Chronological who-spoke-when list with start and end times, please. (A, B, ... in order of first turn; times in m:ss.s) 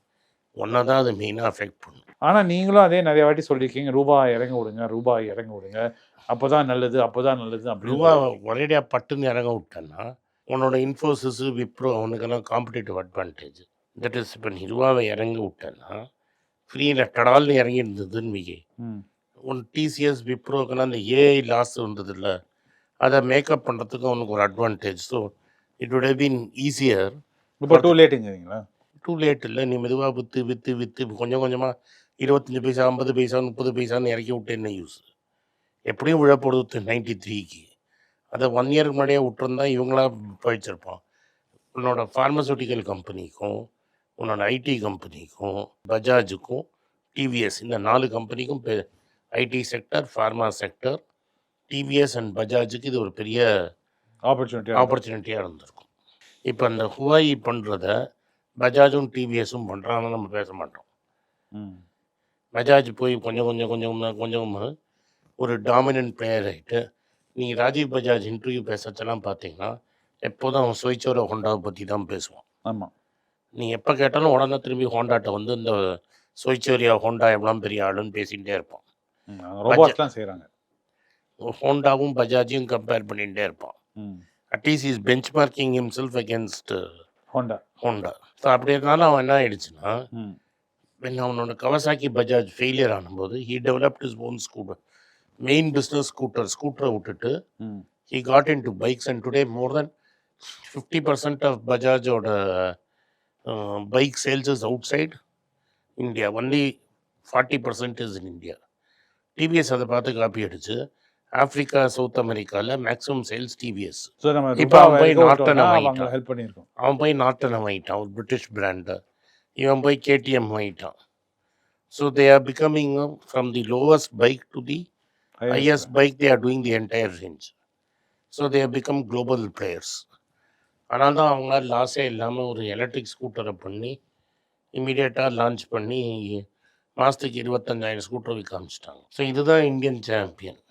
0:00.6-0:02.0 A
0:02.3-0:08.2 B
0:07.8-0:15.9 A
0:16.7-0:18.6 A
0:19.5-0:22.3 A
0:23.0-0:25.3 A
0:25.8-0:27.2 A
0:27.6-0:28.6 B
0:27.7-0:27.9 A
0:29.0-0:31.7 A
0:32.2-0:35.0 A
0:35.9-0:37.7 A
0:38.3-0:41.0 A
0:41.8-0:43.5 A
0:44.2-0:46.6 A
0:47.2-0:48.8 A
0:49.4-0:51.0 A
0:51.7-0:53.5 A
0:54.3-0:55.0 B
0:54.8-0:55.9 A
0:56.5-0:57.9 A
0:58.6-1:00.8 A
1:01.6-1:01.8 B
1:02.6-1:04.7 A
1:05.4-1:06.8 A
1:07.4-1:09.7 A
1:10.3-1:12.4 A
1:12.7-1:12.9 B
1:13.6-1:15.8 A
1:16.4-1:18.8 A
1:19.3-1:20.5 B
1:19.7-1:20.0 A
1:21.5-1:23.8 A
1:24.5-1:26.8 A
1:27.4-1:27.6 B
1:27.8-1:29.9 A
1:31.0-1:34.7 A
1:35.4-1:37.3 A
1:38.1-1:39.9 A
1:40.6-1:42.8 A
1:43.5-1:45.1 A
1:46.0-1:46.6 A
1:47.3-1:48.6 A
1:49.4-1:50.8 A
1:51.4-1:56.1 A
1:54.2-1:56.7 B
1:56.8-1:59.0 A
1:59.6-2:00.9 A
2:01.9-2:04.9 A
2:05.4-2:05.9 B
2:05.5-2:07.5 A
2:08.3-2:10.0 A
2:10.9-2:13.9 A
2:14.8-2:16.4 A
2:17.0-2:20.6 A